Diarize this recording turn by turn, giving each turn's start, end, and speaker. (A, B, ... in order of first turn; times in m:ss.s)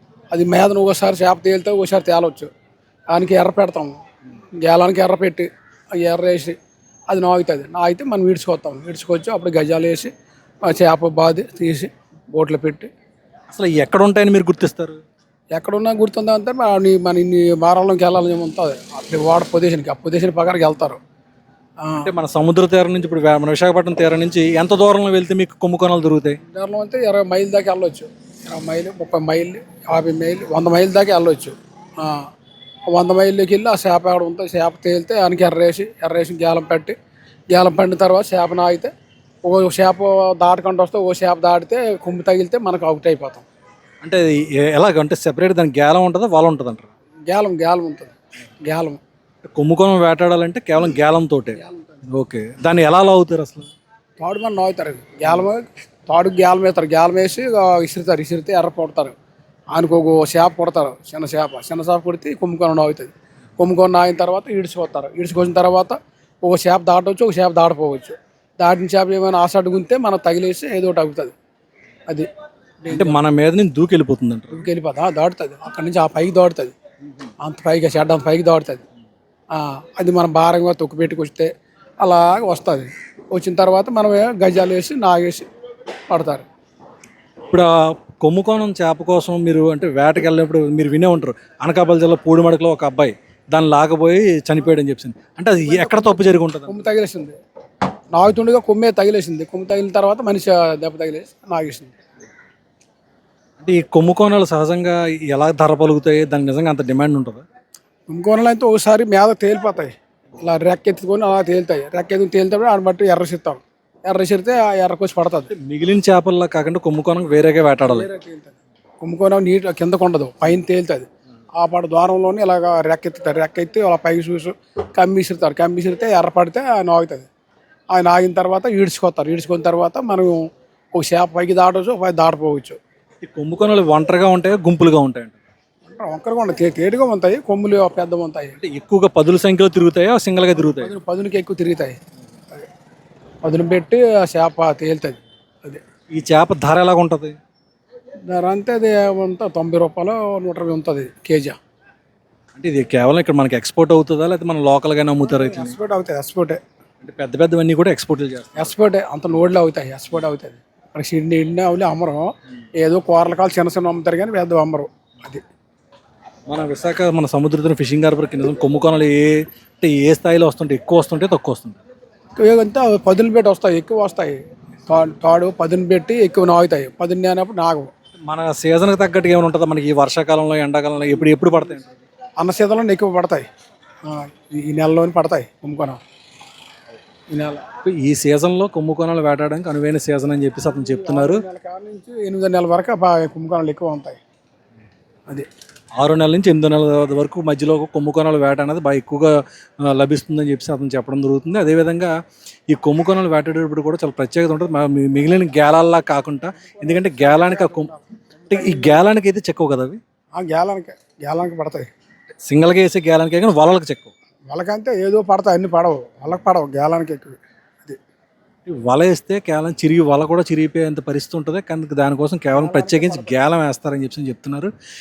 0:00.3-0:02.5 A
0:03.1-0:04.0 A
0:04.6-0:06.6 A
0:07.1-0:10.1 A
0:10.6-0:12.9 A
0:13.5-0:15.0 B
0:15.6-0:21.0 A
0:21.8-0:22.1 A
0:22.0-0:26.4 B
0:26.5-0:32.3 A
0:32.9-0:37.0 A
0:37.5-0:38.9 A
0:39.4-0:43.4 A
0:44.0-0:46.9 B
0:47.3-0:49.0 A
0:49.5-0:53.7 B
0:51.6-0:52.0 A
0:54.2-0:59.2 A
0:59.7-1:11.3 A
1:12.8-1:13.2 A
1:12.9-1:14.7 B
1:14.5-1:16.8 A
1:17.4-1:18.8 A
1:19.5-1:21.5 A
1:22.0-1:25.5 A
1:26.1-1:26.5 A
1:27.5-1:36.8 B
1:35.7-1:37.4 A
1:38.1-1:42.0 A
1:43.6-1:47.4 B
1:48.1-1:55.5 A
1:55.5-1:58.1 B
1:57.8-2:07.3 A
2:07.9-2:10.4 A
2:11.0-2:12.8 A
2:13.2-2:15.4 B
2:15.9-2:18.6 A
2:18.6-2:20.9 B
2:20.8-2:22.0 A
2:23.4-2:25.8 A
2:26.1-2:27.4 B
2:28.3-2:31.6 A
2:32.6-2:35.8 B
2:35.2-2:36.6 A
2:37.0-2:38.7 B
2:38.6-2:45.4 A
2:46.5-2:51.8 B
2:52.4-2:57.9 A
2:58.3-3:01.9 B
3:02.4-3:03.4 A
3:04.0-3:06.0 A
3:07.3-3:07.6 A
3:07.8-3:11.4 B
3:10.6-3:14.2 A
3:16.0-3:22.1 B
3:22.7-3:27.9 B
3:26.6-3:29.0 A
3:28.5-3:30.0 B
3:30.4-3:31.9 A
3:32.4-3:34.1 B
3:34.5-3:38.0 A
3:38.7-3:44.7 B
3:42.5-3:43.4 A